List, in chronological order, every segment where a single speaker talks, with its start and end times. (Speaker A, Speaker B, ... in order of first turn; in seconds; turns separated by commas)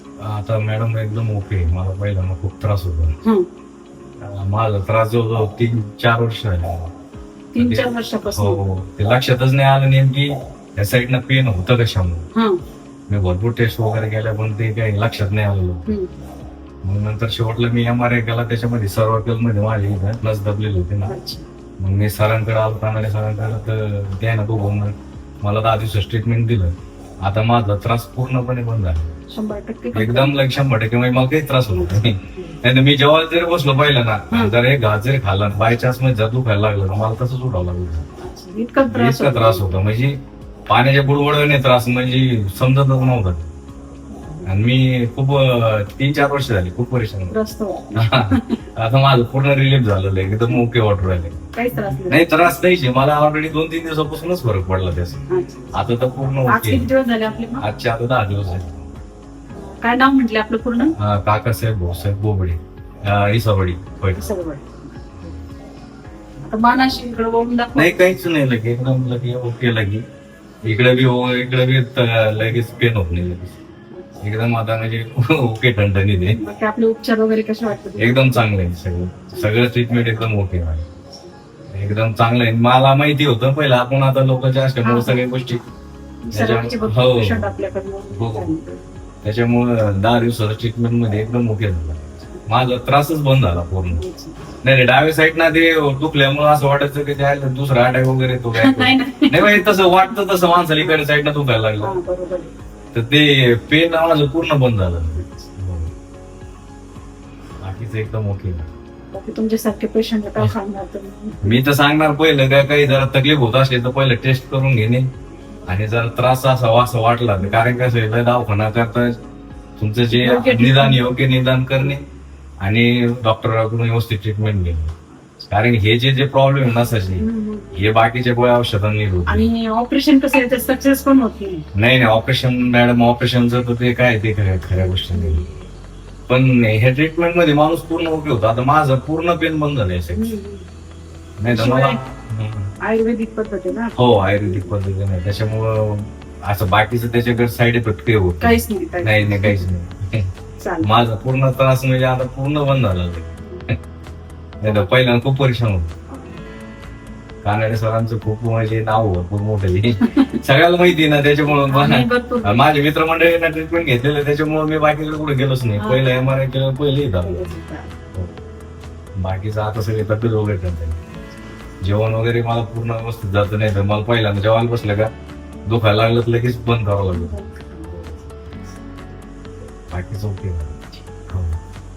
Speaker A: 0.2-3.1, Speaker A: 4.2-6.9, Speaker B: 7.5-8.6, Speaker A: 7.6-12.2, Speaker A: 13.1-15.9, Speaker B: 15.9-16.1, Speaker A: 16.8-21.1, Speaker B: 21.1-21.4, Speaker A: 21.8-26.7, Speaker A: 27.2-29.1, Speaker B: 29.3-30.3, Speaker A: 29.9-38.1, Speaker B: 31.7-32.6, Speaker B: 38.2-39.6, Speaker A: 38.9-40.1, Speaker A: 40.7-43.5, Speaker B: 44.1-44.5, Speaker A: 44.4-47.3, Speaker B: 47.3-48.6, Speaker A: 48.0-51.4, Speaker B: 51.5-52.5, Speaker A: 52.1-55.2, Speaker B: 55.3-55.7, Speaker A: 55.7-56.9, Speaker B: 56.5-57.6, Speaker A: 57.6-58.9, Speaker B: 59.6-60.9, Speaker A: 61.0-64.2, Speaker B: 64.1-65.1, Speaker B: 66.4-67.9, Speaker A: 67.8-70.0, Speaker A: 70.6-73.5, Speaker A: 74.2-76.4, Speaker B: 76.3-78.4, Speaker A: 78.0-80.9, Speaker A: 81.7-85.6, Speaker B: 84.8-85.7, Speaker B: 86.3-88.8, Speaker A: 86.3-87.5, Speaker A: 88.1-88.5, Speaker A: 89.2-94.0, Speaker B: 93.9-94.4, Speaker A: 94.6-102.0, Speaker B: 98.6-99.8, Speaker B: 101.8-102.5, Speaker A: 102.9-105.9, Speaker A: 107.6-108.7, Speaker B: 109.1-111.6, Speaker A: 111.4-115.0, Speaker A: 115.7-119.1, Speaker B: 117.4-117.9, Speaker A: 119.8-122.0, Speaker B: 120.1-121.1, Speaker A: 122.6-124.9, Speaker A: 125.5-129.5, Speaker B: 127.2-127.8, Speaker B: 129.3-131.6, Speaker A: 131.8-135.4, Speaker B: 135.1-135.5, Speaker A: 136.3-140.3, Speaker B: 140.1-140.7, Speaker A: 141.4-142.7, Speaker B: 141.5-142.0, Speaker B: 142.8-144.8, Speaker A: 143.9-150.2, Speaker B: 148.4-149.6, Speaker B: 150.6-150.9, Speaker A: 150.8-153.3, Speaker A: 154.6-155.9, Speaker B: 154.6-154.9, Speaker B: 156.1-156.4, Speaker A: 157.4-167.5, Speaker B: 160.0-160.3, Speaker B: 161.4-162.7, Speaker B: 165.8-166.1, Speaker B: 167.2-167.9, Speaker A: 169.2-171.0, Speaker A: 171.8-175.1, Speaker A: 175.7-177.3, Speaker B: 177.1-178.2, Speaker A: 179.9-181.6